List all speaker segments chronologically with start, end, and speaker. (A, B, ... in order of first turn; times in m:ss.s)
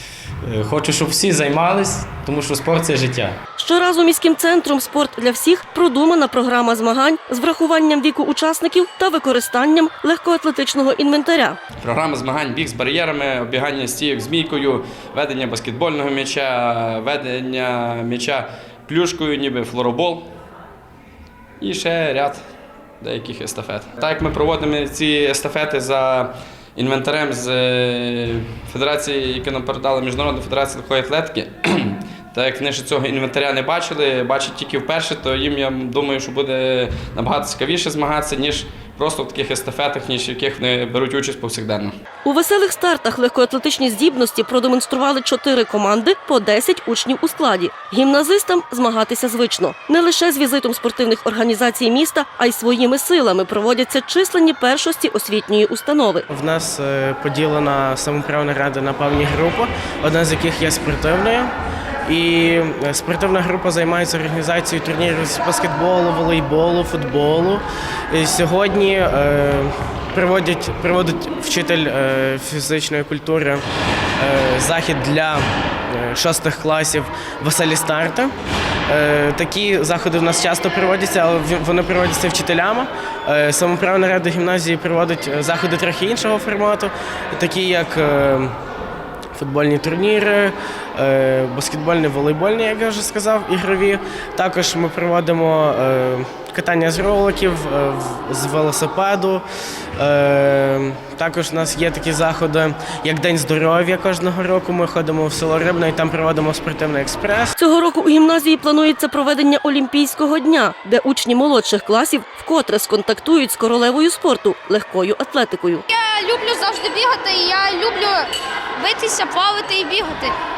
0:00.4-0:03.4 A
0:03.6-0:11.6 B
0:11.8-0:20.3 C
0:21.6-0:22.4 C
0:23.0-0:41.9 C
0:42.2-0:56.2 B
0:56.3-1:01.5 D
1:02.1-1:13.6 D
1:14.2-1:18.3 D
1:18.9-1:28.5 D
1:29.4-1:39.4 D
1:40.0-1:47.5 D
1:47.6-1:55.8 B
1:55.9-2:00.3 E